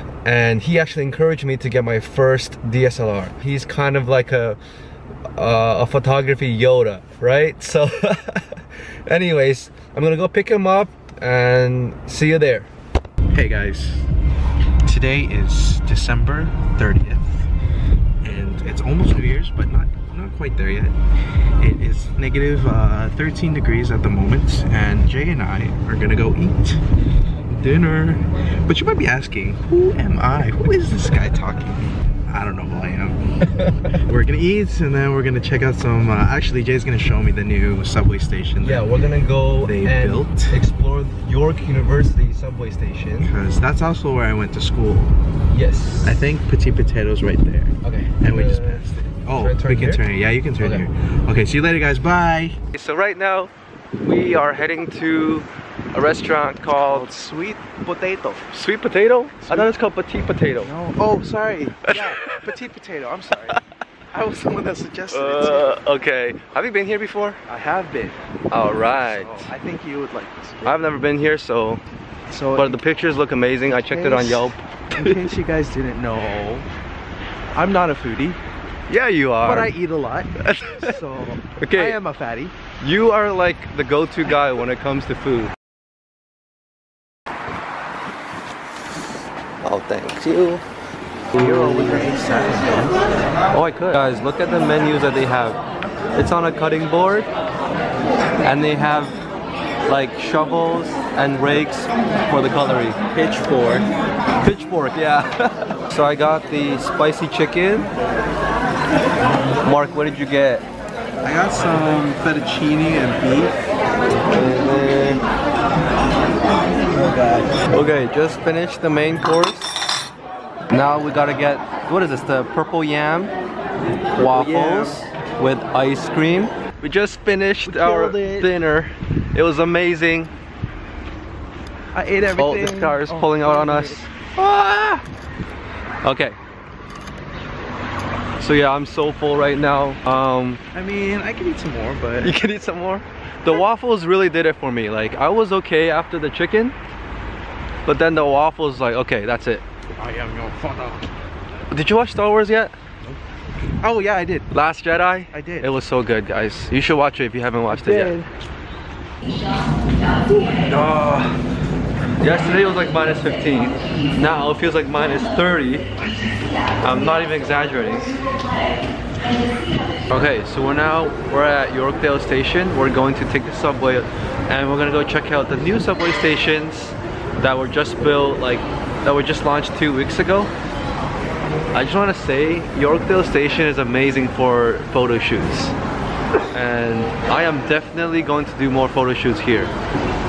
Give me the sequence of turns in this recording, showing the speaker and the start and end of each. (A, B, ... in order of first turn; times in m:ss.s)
0:00.2-0:04.6 A
0:05.4-0:12.7 A
0:13.3-0:14.1 B
0:14.8-0:17.5 B
0:18.2-0:26.8 B
0:27.5-0:33.3 B
0:33.4-0:33.9 A
0:33.8-0:38.9 B
0:38.6-0:43.3 A
0:39.6-0:40.6 B
0:43.2-0:45.2 B
0:45.5-0:46.2 A
0:46.0-0:52.6 B
0:47.8-0:50.0 A
0:52.7-0:57.1 A
0:56.9-0:58.5 B
0:58.5-1:00.7 A
0:59.4-0:59.7 B
1:00.6-1:03.6 B
1:01.8-1:02.5 A
1:04.1-1:05.8 B
1:05.1-1:07.4 A
1:07.5-1:08.2 B
1:08.5-1:09.5 A
1:09.0-1:10.9 B
1:10.6-1:11.8 A
1:12.3-1:12.8 B
1:12.5-1:15.3 A
1:13.6-1:16.7 B
1:17.5-1:18.4 B
1:18.9-1:19.7 A
1:19.4-1:22.5 B
1:20.4-1:21.0 A
1:21.6-1:22.0 A
1:22.8-1:25.5 A
1:29.6-1:30.6 A
1:31.3-1:33.0 B
1:33.5-1:35.6 A
1:36.2-1:37.3 A
1:38.4-1:39.2 A
1:39.9-1:43.8 A
1:43.1-1:43.5 B
1:44.4-1:47.9 A
1:49.6-1:50.6 A
1:51.2-1:53.6 B
1:54.3-1:55.2 A
1:56.9-1:57.5 B
1:57.6-1:59.8 A
2:00.7-2:03.3 A
2:04.2-2:10.3 A
2:04.2-2:05.0 B
2:07.6-2:08.5 B
2:11.9-2:14.0 B
2:12.3-2:15.0 A
2:16.0-2:16.4 A
2:18.4-2:20.6 A
2:20.7-2:22.3 B
2:22.2-2:26.8 A
2:27.8-2:29.6 A
2:30.0-2:31.1 B
2:31.7-2:32.7 A
2:33.8-2:34.5 B
2:34.5-2:38.2 A
2:35.3-2:35.7 B
2:37.7-2:38.3 B
2:40.6-2:41.2 B
2:40.7-2:41.2 A
2:42.2-2:45.9 A
2:46.8-2:48.2 A
2:50.1-3:00.5 A
3:01.7-3:05.8 A
3:06.5-3:09.7 A